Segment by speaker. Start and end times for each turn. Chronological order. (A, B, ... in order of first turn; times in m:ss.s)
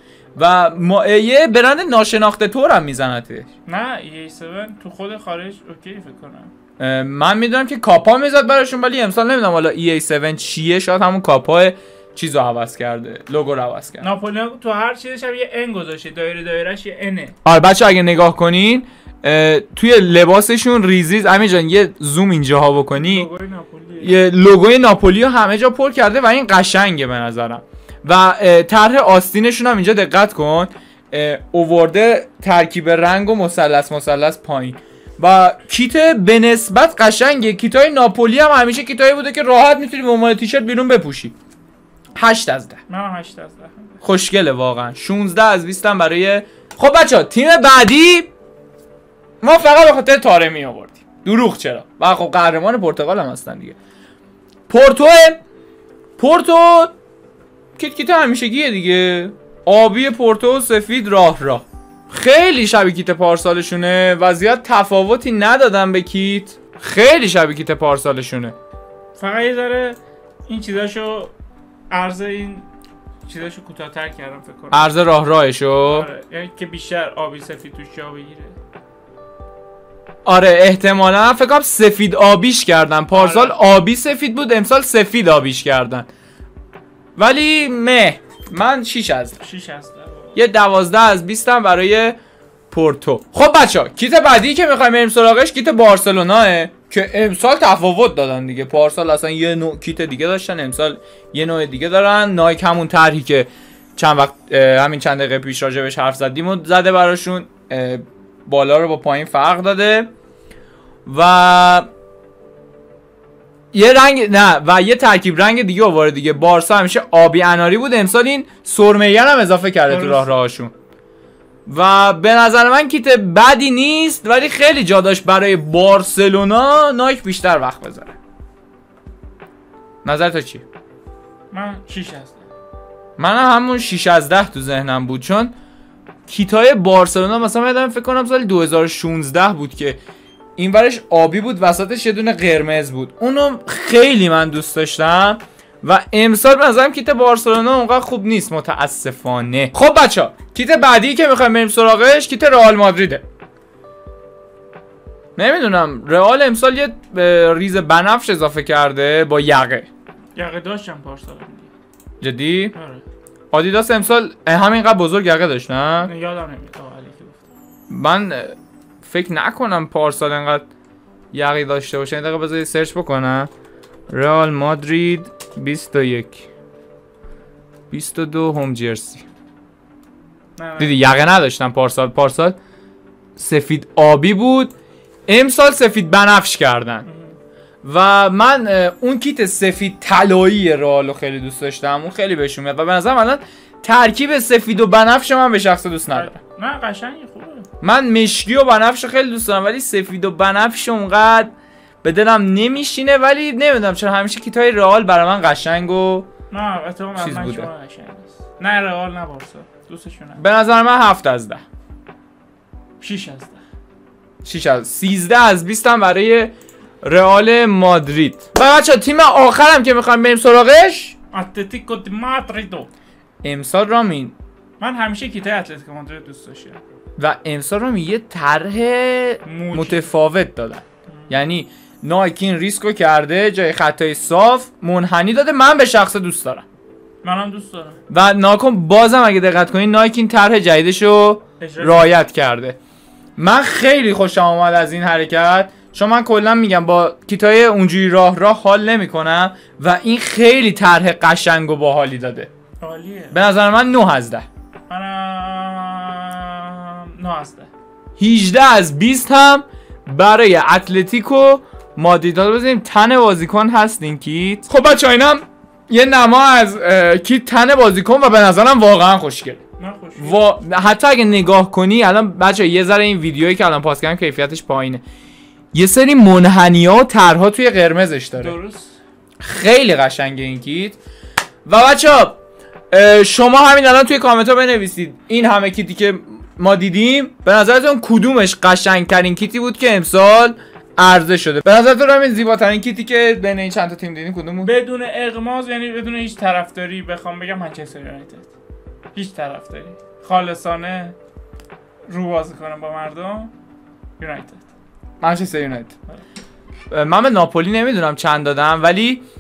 0:00.4-0:03.5 A
0:03.7-0:06.5 B
0:06.8-0:14.1 A
0:14.0-0:17.4 B
0:17.4-0:23.3 A
0:23.0-0:24.2 B
0:24.0-0:41.4 A
0:42.2-0:42.8 A
0:42.9-0:44.0 B
0:44.0-0:48.3 A
0:49.4-0:53.8 A
0:54.7-0:55.4 A
0:56.2-0:56.9 A
0:57.8-1:08.6 A
1:09.2-1:11.3 B
1:11.9-1:12.7 B
1:13.2-1:14.9 B
1:14.7-1:16.1 A
1:15.9-1:18.6 B
1:20.2-1:26.1 A
1:23.1-1:23.6 B
1:27.2-1:29.4 A
1:29.4-1:30.4 B
1:30.4-1:32.2 A
1:32.7-1:50.1 A
1:51.1-1:51.9 A
1:53.7-2:00.7 A
1:59.9-2:00.4 B
2:01.7-2:08.2 A
2:10.0-2:10.6 A
2:11.5-2:12.5 B
2:13.2-2:15.5 A
2:16.3-2:20.0 A
2:20.6-2:33.2 A
2:35.4-2:39.9 A
2:40.4-2:41.7 B
2:42.2-2:42.8 A
2:42.8-2:43.0 B
2:43.5-2:46.1 A
2:46.0-2:47.5 B
2:47.9-2:50.7 A
2:51.3-2:53.5 A
2:54.1-2:56.5 A
2:57.9-2:59.3 A
3:00.6-3:01.0 B
3:00.8-3:02.6 A
3:03.4-3:04.7 A
3:05.3-3:07.1 A
3:07.1-3:07.4 B
3:07.8-3:16.4 A
3:16.1-3:17.7 B
3:17.8-3:26.3 A
3:26.5-3:30.4 B
3:27.2-3:27.7 A
3:30.4-3:31.6 A
3:33.0-3:33.6 B
3:34.4-3:41.2 A
3:41.3-3:42.9 B
3:43.4-3:44.4 A
3:44.8-3:46.8 B
3:47.2-3:56.7 A
3:49.4-3:50.1 B
3:57.2-3:58.0 B
3:58.1-4:02.8 A
4:01.6-4:02.2 B
4:03.4-4:12.5 A
4:12.8-4:13.4 B
4:13.3-4:14.5 A
4:14.9-4:17.7 B
4:18.2-4:29.6 A
4:29.8-4:30.4 B
4:30.2-4:35.0 A
4:35.7-4:38.6 A
4:38.4-4:39.0 B
4:39.4-4:41.0 A
4:41.7-4:42.4 A
4:42.9-4:54.7 A
4:54.6-4:58.5 B
4:59.2-5:01.2 B
5:02.1-5:03.5 B
5:04.2-5:04.6 B
5:05.2-5:05.9 A
5:06.9-5:09.2 A